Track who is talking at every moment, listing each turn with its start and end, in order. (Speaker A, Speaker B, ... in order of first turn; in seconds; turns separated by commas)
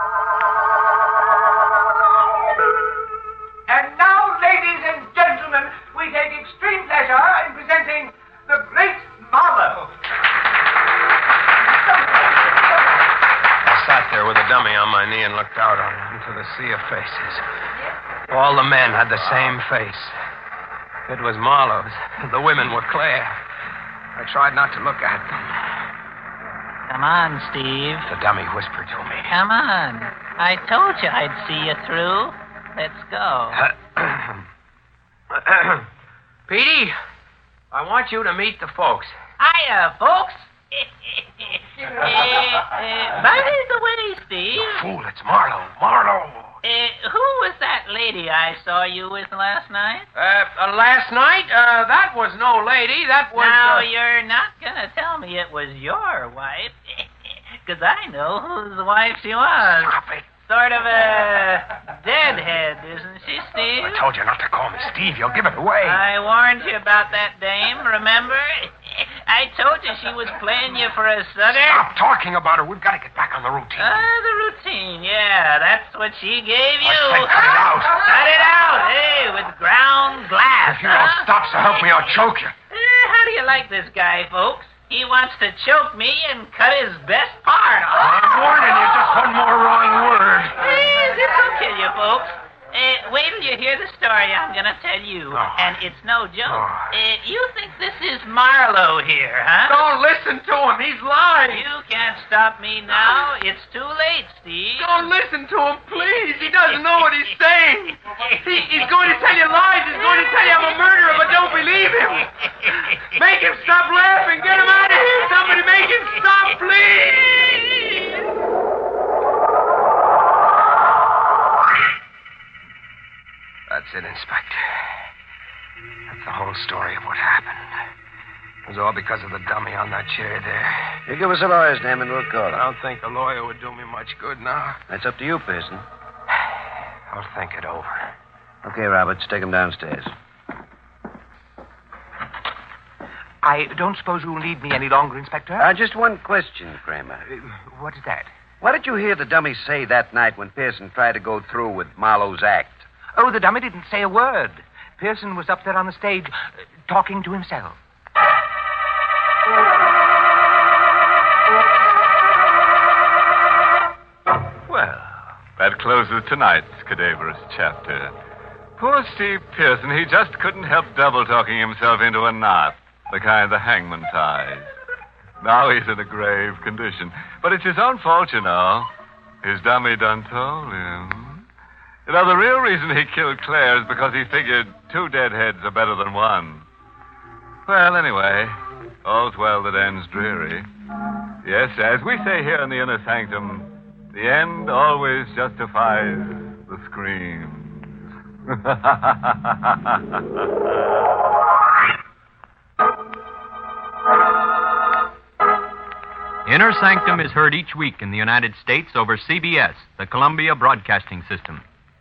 Speaker A: 3.7-9.9, Speaker B: 13.6-17.4, Speaker B: 18.3-20.1, Speaker B: 21.1-23.4, Speaker B: 24.2-25.8, Speaker C: 26.9-28.1, Speaker B: 28.1-29.4, Speaker C: 29.3-33.7, Speaker B: 33.5-34.5, Speaker B: 35.3-35.9, Speaker B: 36.5-37.0, Speaker B: 37.7-39.1, Speaker C: 39.4-44.8, Speaker B: 44.5-46.6, Speaker C: 46.6-50.1, Speaker B: 50.1-53.9, Speaker C: 53.4-60.0, Speaker B: 59.6-60.3, Speaker C: 60.5-64.0, Speaker B: 63.8-66.0, Speaker C: 65.8-71.8, Speaker B: 71.5-74.1, Speaker C: 73.8-81.3, Speaker B: 76.8-78.1, Speaker B: 80.6-82.5, Speaker C: 82.7-89.0, Speaker B: 87.9-90.7, Speaker C: 90.5-99.9, Speaker B: 95.3-95.8, Speaker B: 96.5-97.0, Speaker B: 99.6-101.7, Speaker C: 101.5-105.1, Speaker B: 104.8-118.0, Speaker B: 123.7-124.6, Speaker B: 126.1-127.7, Speaker B: 128.7-131.0, Speaker D: 131.1-132.7, Speaker B: 132.5-134.8, Speaker D: 134.9-135.8, Speaker B: 137.1-138.1, Speaker D: 138.6-140.1, Speaker A: 143.4-145.7, Speaker D: 145.6-147.2, Speaker A: 147.3-148.3, Speaker D: 148.6-152.8, Speaker A: 153.2-157.8, Speaker E: 164.7-168.1, Speaker E: 168.8-174.7, Speaker E: 175.4-178.9, Speaker E: 179.4-181.4, Speaker E: 182.1-186.7, Speaker E: 187.7-190.7, Speaker E: 191.4-197.8, Speaker E: 198.5-200.2, Speaker F: 206.5-211.6